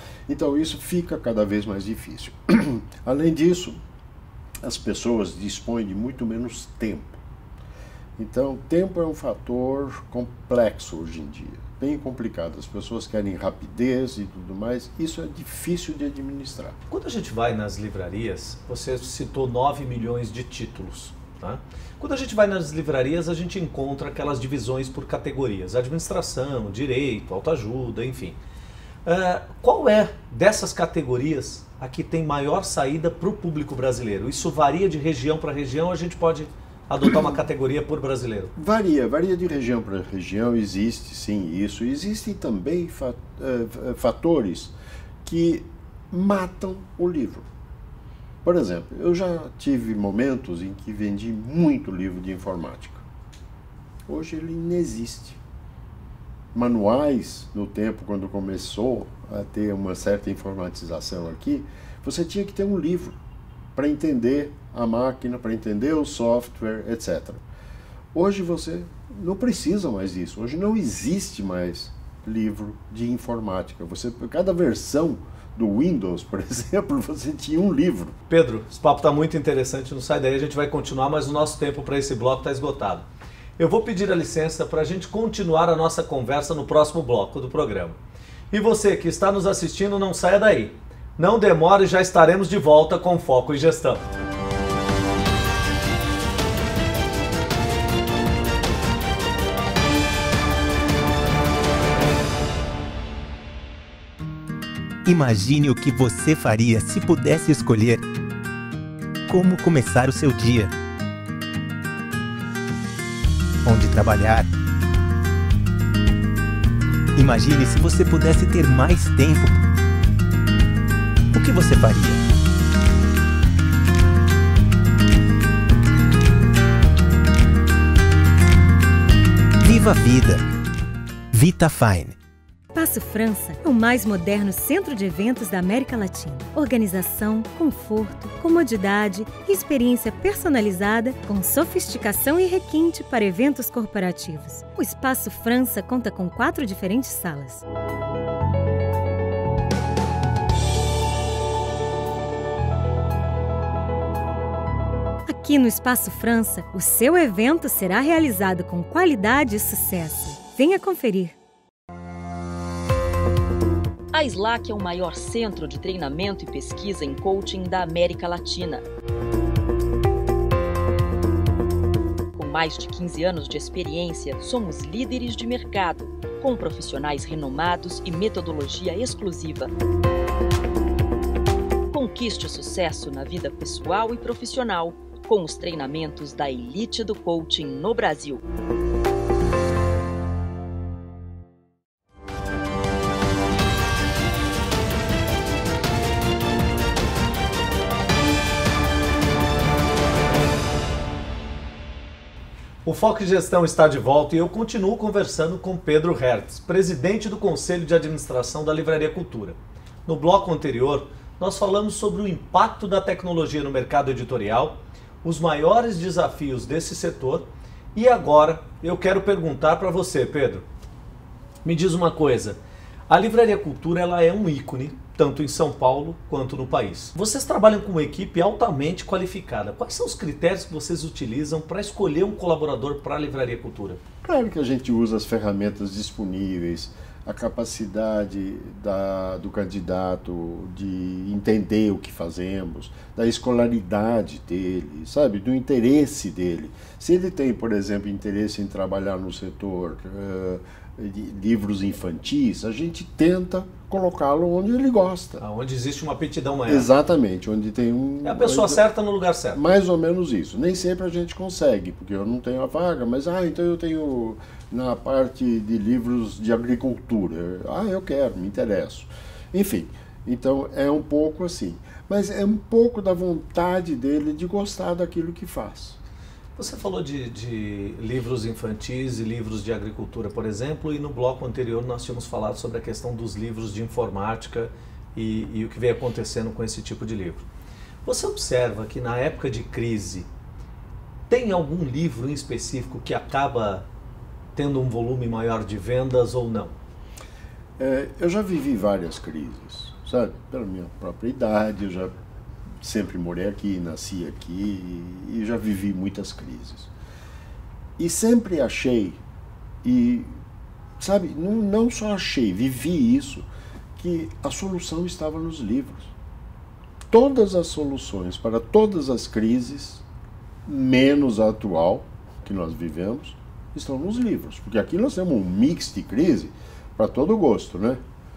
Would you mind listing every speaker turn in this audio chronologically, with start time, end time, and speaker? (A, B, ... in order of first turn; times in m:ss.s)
0:00.3-0:03.8 A
0:04.6-0:07.2 A
0:08.2-0:16.7 A
0:16.9-0:28.4 B
0:29.0-0:38.5 B
0:38.6-0:47.5 A
0:48.4-0:53.0 A
0:54.1-0:55.4 A
0:56.5-1:03.2 A
1:03.7-1:07.4 A
1:08.1-1:18.2 A
1:18.3-1:23.0 B
1:23.6-1:28.0 B
1:28.5-1:34.0 B
1:45.0-1:48.0 C
1:49.3-1:50.7 C
1:53.6-1:54.5 C
1:57.2-1:59.6 C
2:01.3-2:02.2 C
2:09.6-2:10.4 C
2:11.3-2:12.2 C
2:12.7-2:27.6 D
2:35.2-2:41.3 D
2:44.1-2:48.8 E
2:52.4-2:59.7 E
3:01.9-3:08.4 E
3:22.8-3:40.6 B
3:41.6-3:54.0 B
3:54.2-4:15.4 A
4:15.4-4:16.9 B
4:16.7-4:18.8 A
4:18.2-4:19.6 B
4:19.5-4:36.0 A
4:36.6-4:47.4 B
4:48.0-4:50.3 B
4:51.3-4:53.8 B
4:54.5-4:56.8 B
4:57.8-5:02.1 A
5:02.8-5:06.9 A
5:08.0-5:09.2 A
5:09.8-5:10.4 A
5:11.0-5:16.1 A
5:17.1-5:20.0 A
5:20.6-5:28.0 A